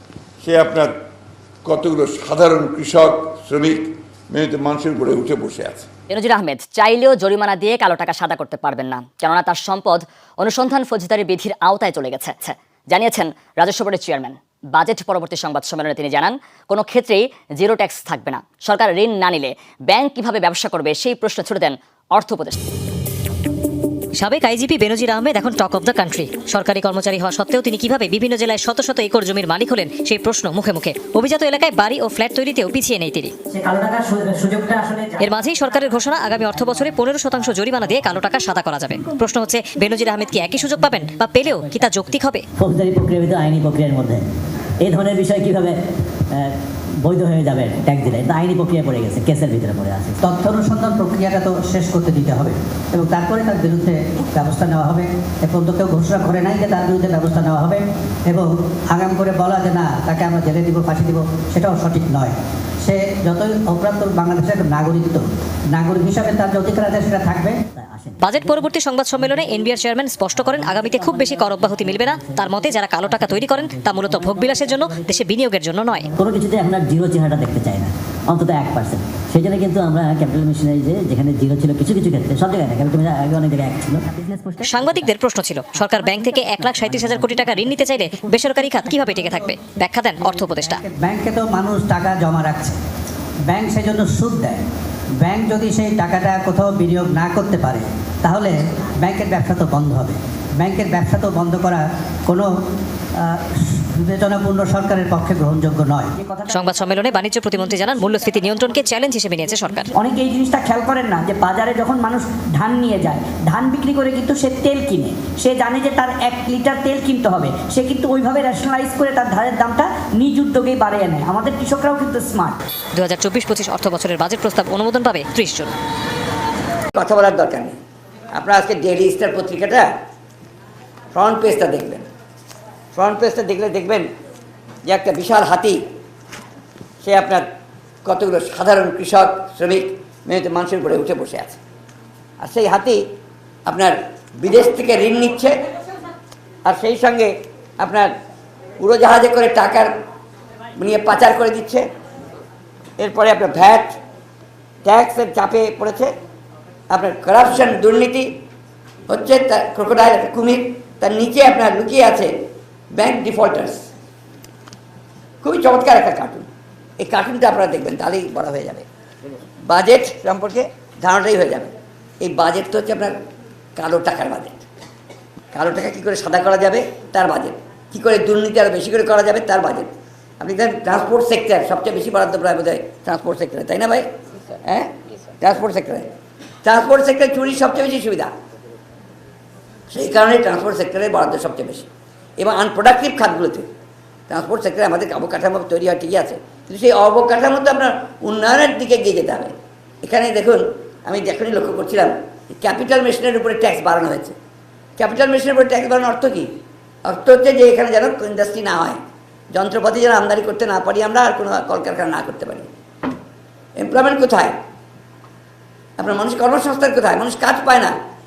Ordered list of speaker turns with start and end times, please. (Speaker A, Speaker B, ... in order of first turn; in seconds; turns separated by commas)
Speaker A: 0.4-0.9, Speaker A: 1.6-5.9, Speaker B: 6.1-22.6, Speaker C: 24.2-33.4, Speaker D: 33.5-35.4, Speaker C: 35.2-42.4, Speaker D: 36.5-38.2, Speaker D: 40.5-40.8, Speaker D: 42.6-44.3, Speaker D: 44.8-45.8, Speaker D: 46.3-50.2, Speaker E: 50.2-67.6, Speaker D: 67.8-69.8, Speaker C: 68.2-76.1, Speaker D: 70.3-75.2, Speaker D: 76.0-85.1, Speaker C: 84.6-90.8, Speaker D: 86.0-88.3, Speaker E: 90.2-92.8, Speaker E: 93.5-94.6, Speaker E: 95.2-102.5, Speaker E: 103.3-106.1, Speaker C: 106.5-109.9, Speaker F: 110.0-122.6, Speaker C: 123.0-125.7, Speaker G: 127.0-127.8, Speaker G: 128.3-129.9, Speaker G: 131.1-132.1, Speaker G: 132.9-134.1, Speaker G: 134.9-135.8, Speaker G: 137.0-137.4, Speaker G: 138.1-141.6, Speaker G: 142.4-143.0, Speaker G: 143.7-145.6, Speaker G: 146.7-148.1, Speaker G: 148.8-149.9, Speaker G: 150.8-151.8, Speaker G: 153.0-154.0, Speaker G: 154.8-156.1, Speaker G: 156.9-158.3, Speaker G: 159.1-162.3, Speaker G: 162.9-163.8, Speaker G: 165.4-166.5, Speaker G: 167.0-168.9, Speaker G: 169.7-173.1, Speaker G: 173.8-174.7, Speaker G: 175.5-179.9, Speaker G: 180.4-184.1, Speaker G: 184.7-186.1, Speaker G: 186.6-188.3, Speaker G: 189.9-191.9, Speaker G: 192.4-193.7, Speaker G: 194.3-204.4, Speaker G: 205.0-206.5, Speaker G: 207.1-209.0, Speaker G: 209.5-212.7, Speaker G: 213.8-214.5, Speaker G: 216.0-217.9